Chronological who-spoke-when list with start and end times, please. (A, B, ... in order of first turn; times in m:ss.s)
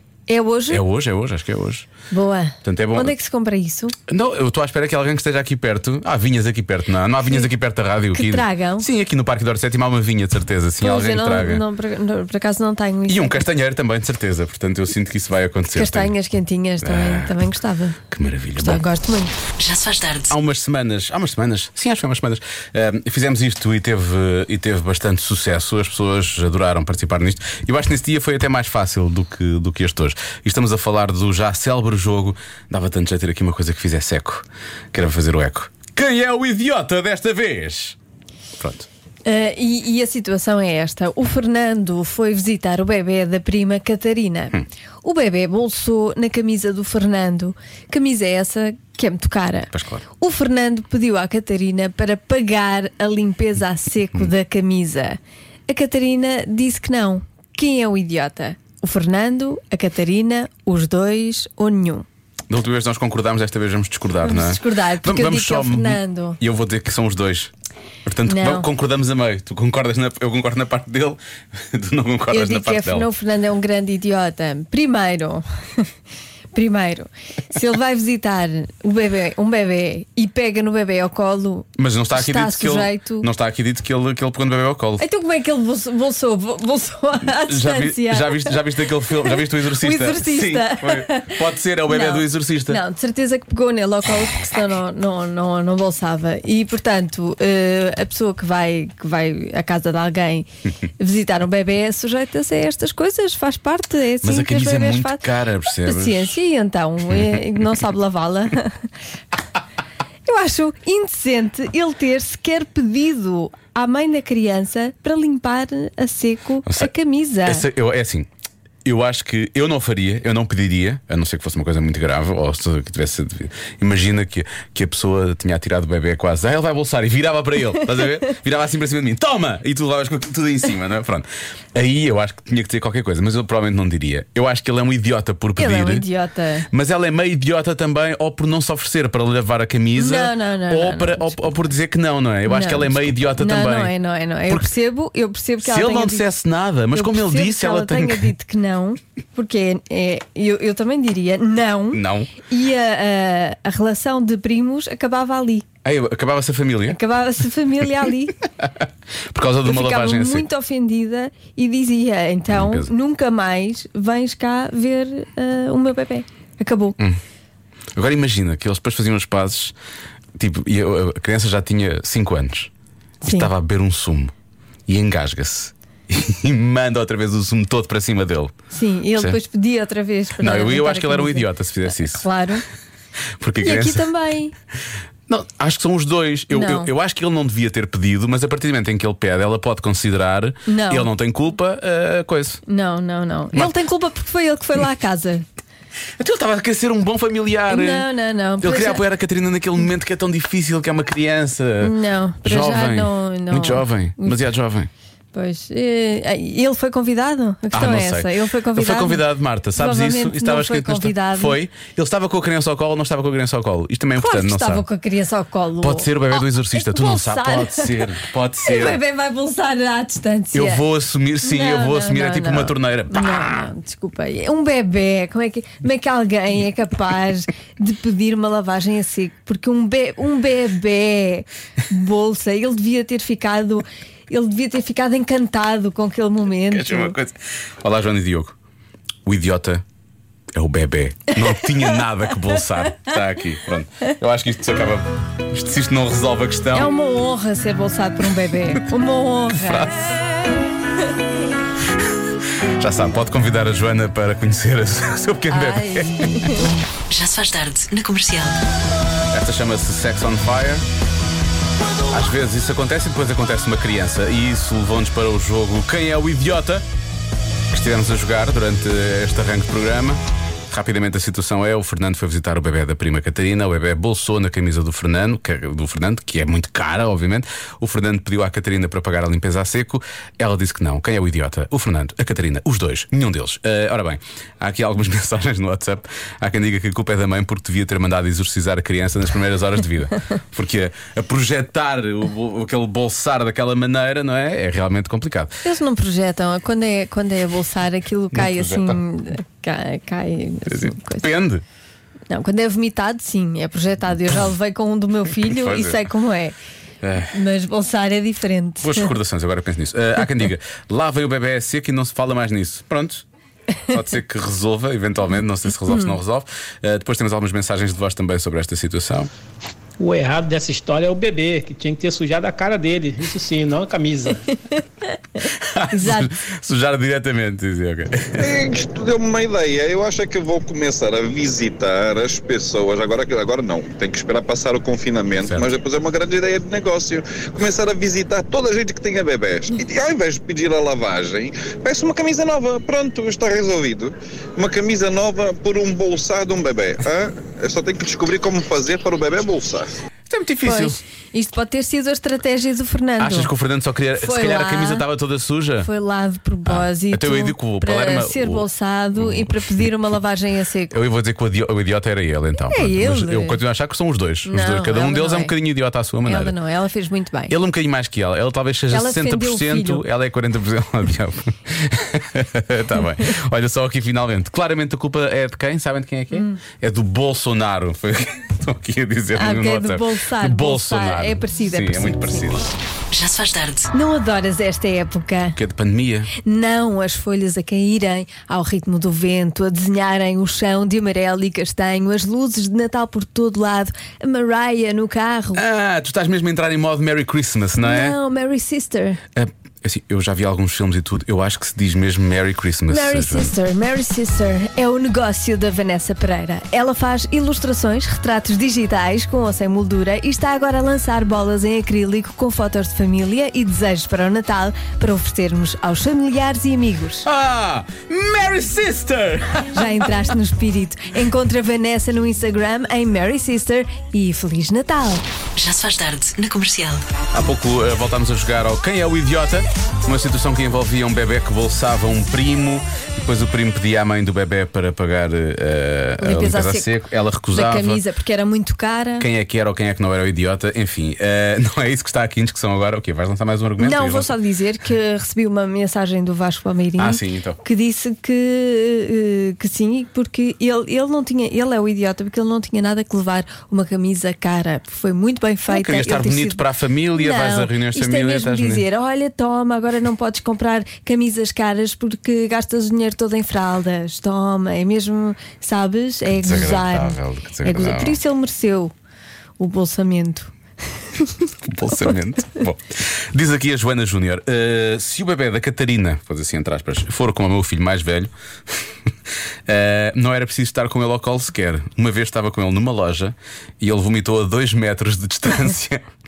0:00.3-0:00.8 A
0:00.7-0:01.9 B
0:02.1-0:04.0 A
0:02.6-0:03.1 B
0:04.1-0:11.6 B
0:08.1-0:08.9 A
0:10.8-0:13.4 A
0:13.1-0:16.1 B
0:15.8-0:18.0 A
0:16.8-0:17.5 B
0:18.1-0:18.8 B
0:18.6-0:19.4 A
0:19.6-0:20.3 C
0:20.3-0:38.0 B
0:38.6-0:38.9 B
0:39.3-1:02.1 A
0:49.7-0:50.0 B
1:02.5-1:07.5 B
1:04.2-1:06.4 A
1:08.0-1:13.1 B
1:08.3-1:08.7 A
1:12.3-1:15.9 A
1:16.5-1:23.3 A
1:21.8-1:25.0 B
1:25.0-1:40.5 A
1:27.3-1:32.8 B
1:41.0-1:45.3 A
1:44.2-1:46.3 B
1:45.8-1:48.9 A
1:50.3-1:57.7 A
1:56.7-1:56.9 B
1:57.4-1:58.3 B
1:58.8-2:16.1 B
2:15.6-2:16.7 A
2:16.7-2:23.9 B
2:20.0-2:21.4 A
2:22.5-2:26.3 A
2:25.6-2:28.3 B
2:26.9-2:35.7 A
2:31.9-2:32.3 B
2:35.8-2:37.0 B
2:36.9-2:38.4 A
2:38.6-2:40.5 B
2:39.6-2:47.0 A
2:42.5-2:42.9 B
2:48.0-2:49.8 B
2:50.4-2:52.7 B
2:53.2-2:54.3 B
2:53.2-2:53.5 A
2:54.9-2:58.5 B
2:58.7-3:01.5 A
3:00.4-3:02.2 B
3:02.1-3:02.6 A
3:03.4-3:04.0 B
3:03.6-3:04.5 A
3:05.3-3:12.6 B
3:06.5-3:06.9 A
3:10.7-3:11.1 A
3:12.7-3:15.5 A
3:16.2-3:18.1 B
3:17.7-3:19.0 A
3:18.6-3:24.9 B
3:21.8-3:24.4 A
3:25.3-3:29.2 A
3:27.7-3:34.8 B
3:29.8-3:31.6 A
3:34.2-3:38.0 A
3:35.8-3:39.0 B
3:38.6-3:40.8 A
3:40.5-3:43.7 B
3:41.4-3:57.2 A
3:56.6-3:58.6 B
3:59.3-3:59.8 B
4:00.5-4:06.9 B
4:06.7-4:10.2 A
4:09.5-4:10.1 B
4:12.8-4:16.5 B
4:15.5-4:16.7 A
4:17.1-4:18.6 C
4:19.3-4:20.9 B
4:22.1-4:26.8 B
4:27.7-4:55.6 B
4:55.6-5:01.3 A
4:58.3-4:59.0 B
5:00.7-5:01.6 B
5:02.3-5:06.6 A
5:05.4-5:06.1 B
5:07.0-5:07.4 B
5:07.3-5:09.1 A
5:08.8-5:13.2 B
5:13.9-5:19.3 B
5:15.9-5:16.2 A
5:20.0-5:24.5 D
5:25.4-5:26.3 A
5:25.6-5:28.6 B
5:28.4-5:50.0 E
5:35.4-5:35.7 B
5:50.3-5:51.0 B
5:50.6-5:53.5 A
5:53.2-5:55.9 B
5:54.2-5:55.1 A
5:55.8-6:01.0 A
5:56.7-5:59.9 B
6:00.9-6:06.6 B
6:02.7-6:03.6 A
6:04.5-6:05.5 A
6:06.2-6:07.6 A
6:07.5-6:22.7 B
6:08.9-6:10.0 A
6:16.3-6:16.6 A
6:19.4-6:22.6 A
6:23.1-6:23.9 C
6:23.9-6:25.6 A
6:25.6-6:26.3 B
6:26.4-6:35.6 A
6:35.6-6:38.2 B
6:37.8-6:39.2 A
6:39.4-6:43.5 B
6:42.9-6:57.3 A
6:57.2-7:00.1 B
6:59.7-7:05.2 A
7:05.6-7:07.0 C
7:07.3-7:18.0 B
7:16.2-7:16.9 A
7:17.5-7:19.3 A
7:19.2-7:24.3 B
7:23.8-7:36.6 A
7:27.0-7:27.6 B
7:35.7-7:38.8 B
7:37.2-7:48.9 A
7:46.4-7:48.2 B
7:49.6-7:51.5 A
7:51.6-7:58.9 B
7:59.7-8:06.0 B